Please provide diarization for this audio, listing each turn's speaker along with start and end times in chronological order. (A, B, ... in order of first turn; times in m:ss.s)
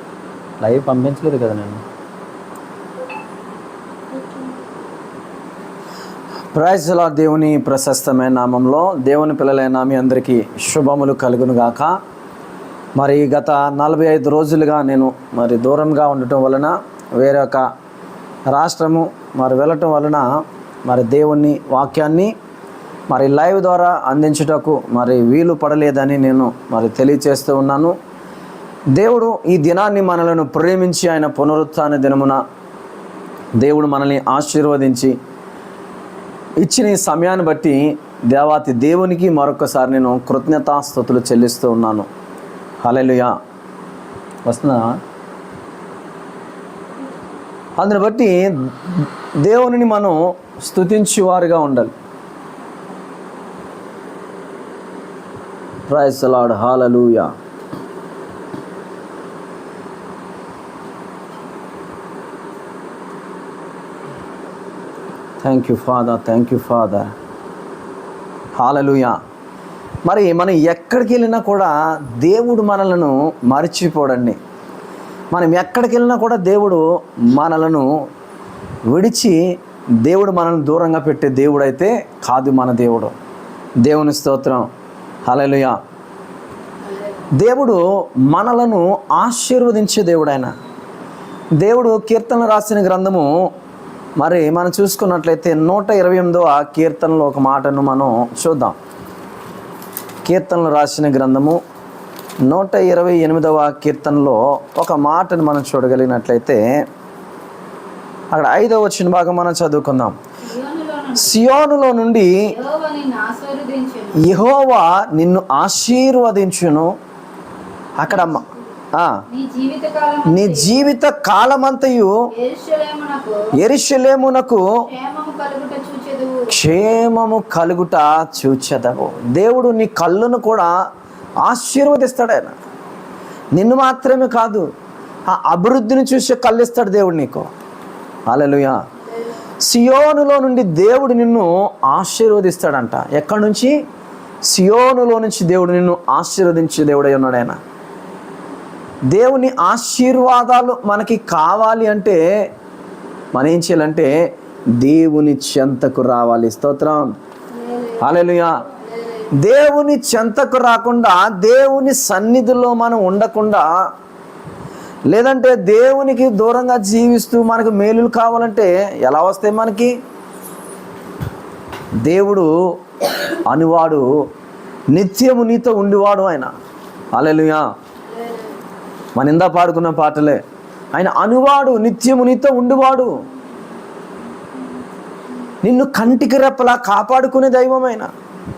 0:00.6-0:01.8 A
0:06.5-0:12.0 A
0:13.0-0:17.7 A
0:18.5-0:22.3 A
0:23.1-0:27.9 A
0:28.9-0:32.4 A
0:33.6-0:35.1 A
0:36.6-0:42.1 A
0:42.8-0:43.3 A
0:44.5-0:45.0 A
0:47.8-0:51.9 A
0:55.9-0:57.3 A
1:05.4-1:07.1 A
1:08.6-1:09.2 A
1:10.1-1:14.4 A
1:15.3-1:17.9 A
1:18.9-1:19.4 A
1:20.0-1:23.1 A
1:23.8-1:24.7 A
1:25.3-1:25.8 A
1:26.8-1:27.3 B
1:27.3-1:30.5 A
1:31.6-1:33.4 A
1:34.2-1:38.8 A
1:40.3-1:41.6 A
1:42.4-1:46.6 A
1:48.3-1:50.2 A
1:50.4-1:51.4 B
1:51.2-1:52.4 A
1:52.4-1:54.3 B
1:54.2-1:56.9 A
1:58.0-1:59.2 A
1:58.1-1:58.4 B
1:59.3-2:00.9 B
2:00.3-2:02.1 A
2:02.3-2:03.5 B
2:03.5-2:04.6 A
2:04.9-2:06.5 B
2:06.5-2:10.7 A
2:11.4-2:12.5 A
2:13.6-2:14.7 A
2:15.3-2:17.5 A
2:18.3-2:18.8 A
2:19.6-2:23.7 A
2:24.5-2:27.6 A
2:29.1-2:32.2 A
2:33.3-2:34.1 A
2:34.8-2:37.1 A
2:37.5-2:38.2 B
2:38.0-2:38.6 A
2:38.7-2:39.3 B
2:39.3-2:43.7 A
2:45.1-2:49.9 A
2:52.0-2:52.5 A
2:53.3-2:54.1 A
2:54.9-2:56.5 A
2:57.1-2:57.6 A
2:58.0-2:58.6 B
2:59.2-3:00.4 A
3:00.9-3:03.1 A
3:05.6-3:08.1 A